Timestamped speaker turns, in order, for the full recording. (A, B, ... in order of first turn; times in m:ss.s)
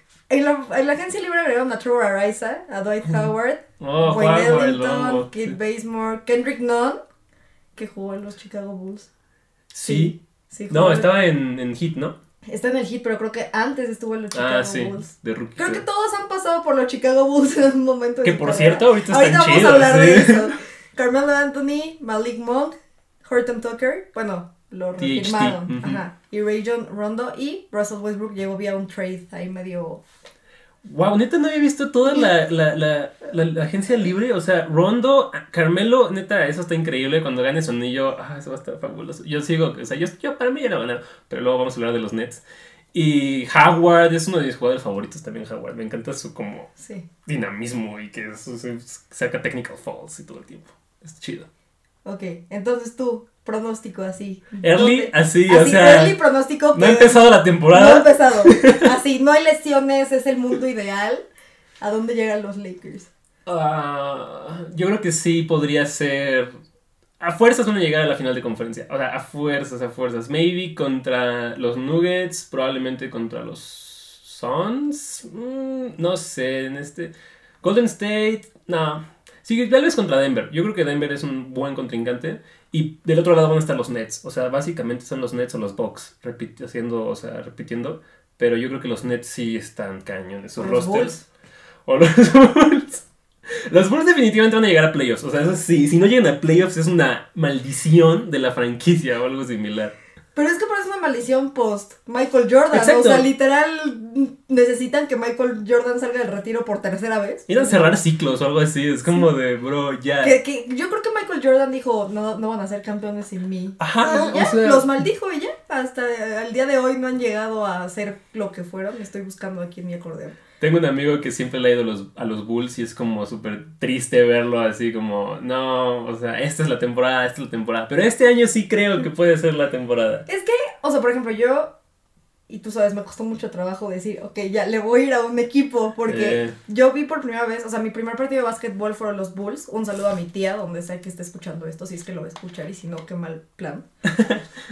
0:00.3-0:07.0 A
0:03.8-0:05.6 B
0:07.8-0:09.1 A
0:09.7-0:10.2 B
0:09.8-0:11.1 A
0:10.7-0:12.2 B
0:12.5-0:30.0 A
0:14.3-0:15.8 B
0:18.2-0:20.5 B
0:25.0-0:26.0 B
0:30.8-0:42.4 B
0:42.9-0:46.7 B
0:46.8-0:47.1 A
0:47.3-0:51.5 B
0:52.0-1:01.2 A
0:54.6-0:56.2 B
0:56.7-0:58.9 B
1:01.8-1:03.1 A
1:03.5-1:06.5 B
1:07.2-1:31.2 B
1:30.6-1:31.2 A
1:31.9-1:40.0 B
1:40.4-1:47.9 A
1:42.7-1:43.3 B
1:47.5-1:50.4 B
1:50.2-2:00.4 A
1:53.8-1:55.0 B
2:00.6-2:10.3 B
2:10.3-2:11.7 A
2:12.5-2:23.9 A
2:16.1-2:16.6 B